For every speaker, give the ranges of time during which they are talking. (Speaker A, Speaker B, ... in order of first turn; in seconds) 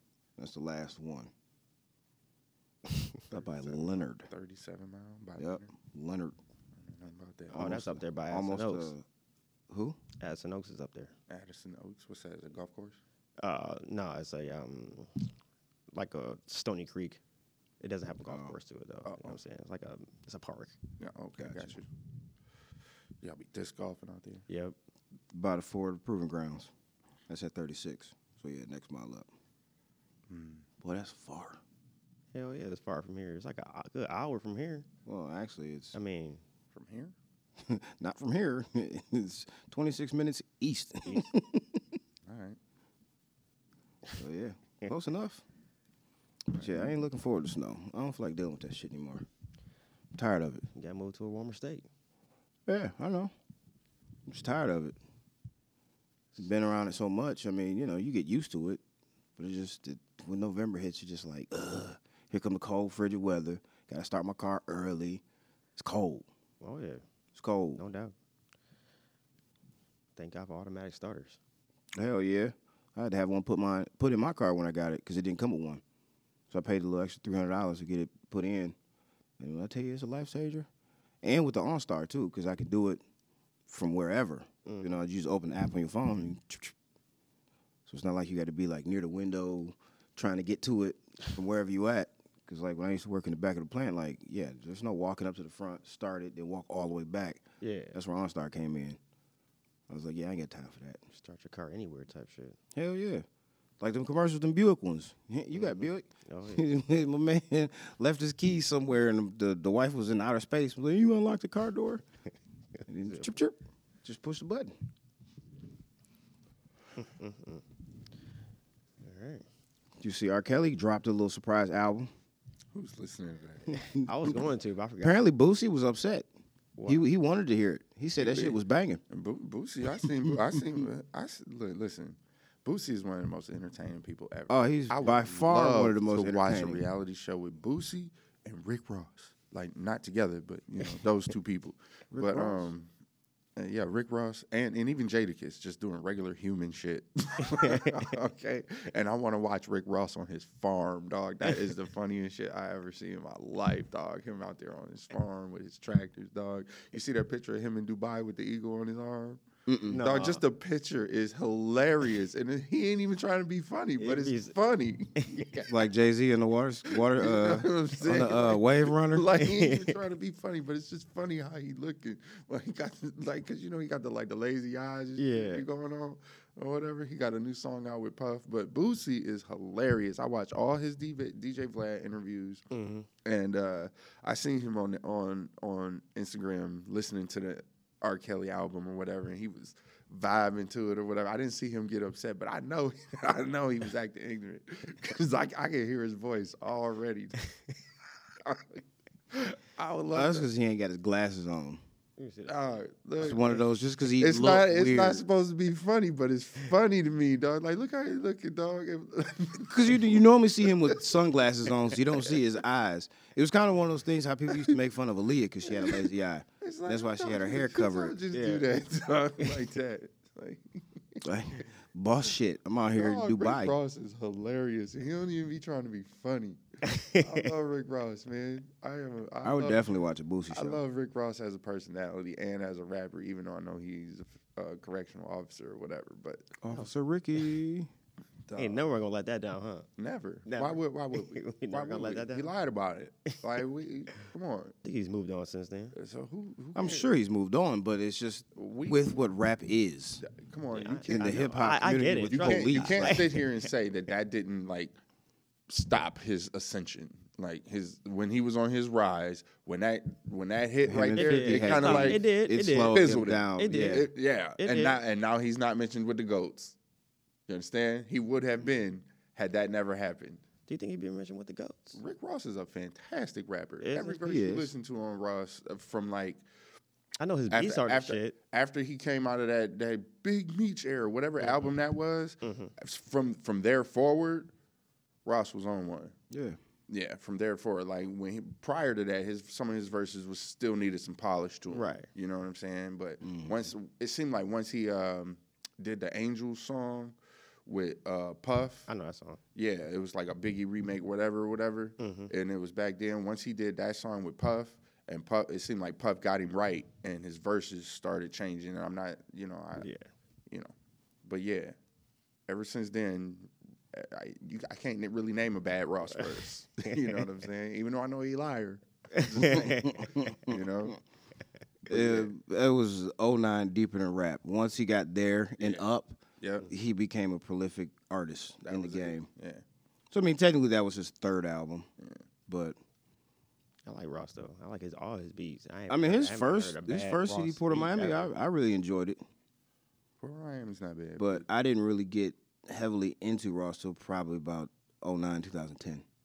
Speaker A: 0.4-1.3, 3.3-4.3, 5.4-6.3, 7.5-9.0, 9.7-10.0, 18.3-18.6, 21.4-21.7, 25.3-26.7, 27.3-29.3, 30.8-31.6, 35.0-35.9, 37.6-41.8, 44.1-45.4, 46.5-49.2, 50.1-50.6, 52.7-53.3, 54.2-55.0, 56.4-58.8, 59.4-65.2, 65.8-66.2, 67.3-67.8, 71.9-75.8, 76.5-78.8, 79.4-80.7, 81.2-83.0, 83.7-86.7, 87.8-99.0, 99.9-101.0, 102.7-103.2, 103.8-112.0, 112.9-114.7, 120.0-122.1, 123.9-124.4, 125.0-126.3, 126.9-129.0, 130.0-130.4, 134.5-136.8, 142.1-142.7, 159.7-160.0, 165.7-169.3, 200.1-201.8, 203.2-205.2, 209.6-218.2, 221.2-223.7, 229.4-230.8, 236.6-237.9, 246.7-250.2, 251.1-253.2, 260.9-264.1, 274.2-274.7, 286.3-286.6, 293.2-293.6, 319.4-320.6, 321.9-329.3, 330.1-331.9, 332.5-332.8, 335.9-339.2, 341.2-346.0
Speaker B: 3.3-5.8, 6.8-7.7, 11.3-13.0, 19.1-19.4, 21.0-21.9, 23.2-24.4, 30.3-30.6, 36.7-37.1, 42.3-42.6, 46.5-46.9, 122.7-123.8, 128.2-128.6, 129.1-142.9, 143.6-159.4, 159.9-165.7, 166.9-182.6, 183.2-197.5, 198.4-200.5, 202.5-203.6, 204.2-211.0, 215.7-216.1, 216.6-221.2, 222.9-230.0, 230.5-236.6, 238.5-238.8, 240.0-244.7, 245.9-247.1, 248.6-249.1, 250.2-254.9, 255.7-262.2, 262.9-266.8, 267.5-270.4, 271.9-276.4, 277.5-284.5, 285.2-286.1, 286.9-297.1, 297.7-298.9, 299.5-309.9, 311.2-311.7, 312.5-319.8, 320.4-321.0, 321.9-322.3, 325.6-325.8, 326.4-326.7, 328.6-329.6, 340.2-341.4
Speaker C: 7.5-8.9, 10.2-11.1, 13.4-15.3, 15.9-17.2, 17.8-20.7, 24.5-24.8, 32.3-34.9, 35.9-36.4, 50.7-51.9, 66.6-67.0, 67.8-68.1, 70.2-71.4, 84.7-85.0, 97.6-98.0, 101.1-102.6, 105.5-106.6, 117.0-117.6, 119.0-119.4, 123.9-125.2, 126.8-127.1, 147.4-148.1, 159.9-160.4, 164.0-164.5, 165.2-165.6, 169.4-169.9, 175.2-175.6, 182.7-183.1, 202.2-202.8, 218.3-218.7, 226.8-227.4, 238.6-239.9, 240.4-242.5, 244.8-245.9, 250.7-253.5, 261.1-264.9, 270.7-272.0, 273.8-274.2, 277.2-278.3, 281.4-281.7, 282.4-282.7, 291.7-292.1, 298.9-299.4, 302.0-302.3, 309.8-310.1, 316.8-317.2, 319.1-320.2, 333.9-338.3